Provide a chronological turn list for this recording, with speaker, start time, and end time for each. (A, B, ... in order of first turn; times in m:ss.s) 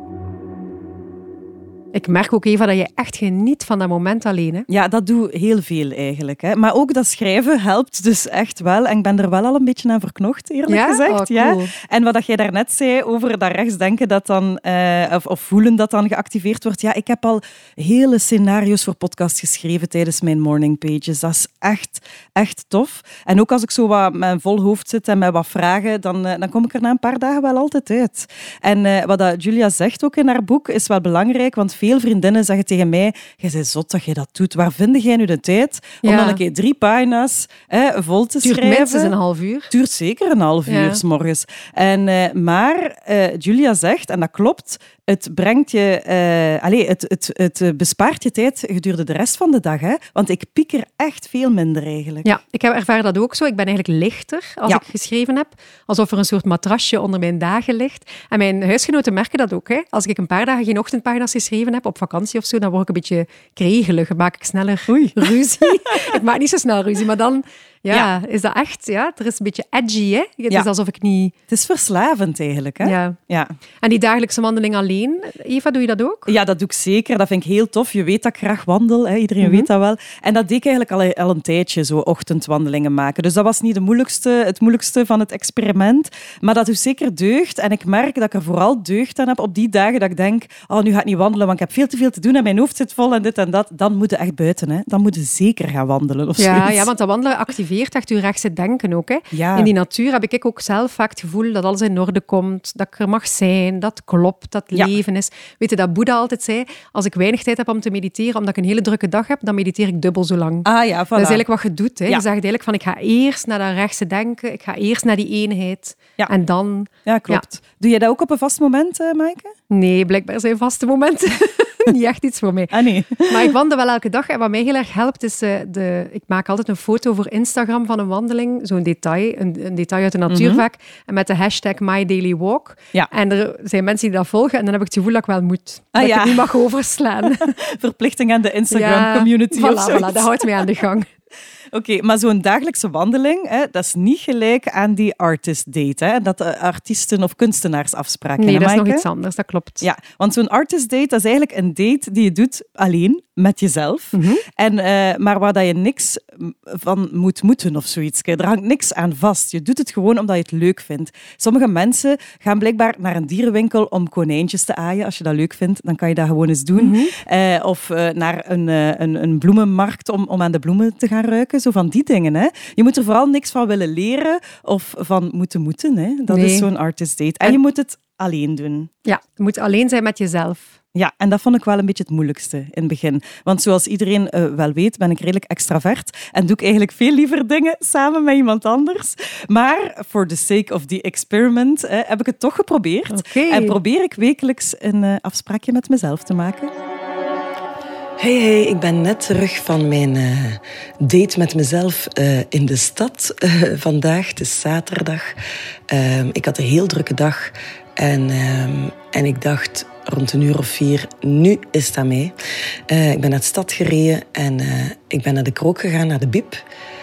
0:01.9-0:04.7 A
0:04.7-0:39.1 B
0:10.7-0:11.7 A
0:36.0-0:36.4 A
0:38.4-0:39.7 A
0:39.7-0:52.3 B
0:40.7-0:41.0 A
0:52.2-1:11.3 A
1:04.9-1:05.3 B
1:11.5-1:13.6 B
1:12.8-1:13.2 A
1:13.8-1:16.3 A
1:16.3-1:36.9 B
1:19.4-1:19.7 A
1:36.4-1:57.4 A
1:39.3-1:39.7 B
1:50.6-1:51.4 B
1:57.0-1:59.6 B
1:59.7-2:17.5 A
2:02.7-2:03.5 B
2:10.3-2:10.6 B
2:16.0-2:16.5 B
2:17.5-2:20.3 B
2:18.7-2:21.1 A
2:21.7-2:29.0 B
2:28.4-2:29.9 A
2:29.8-2:58.9 B
2:34.1-2:34.4 A
2:46.8-2:47.1 A
2:56.3-2:56.7 A
2:59.1-3:00.8 A
3:01.0-3:16.7 B
3:13.1-3:13.8 A
3:18.2-3:25.4 C
3:25.9-3:32.4 C
3:32.9-3:36.6 C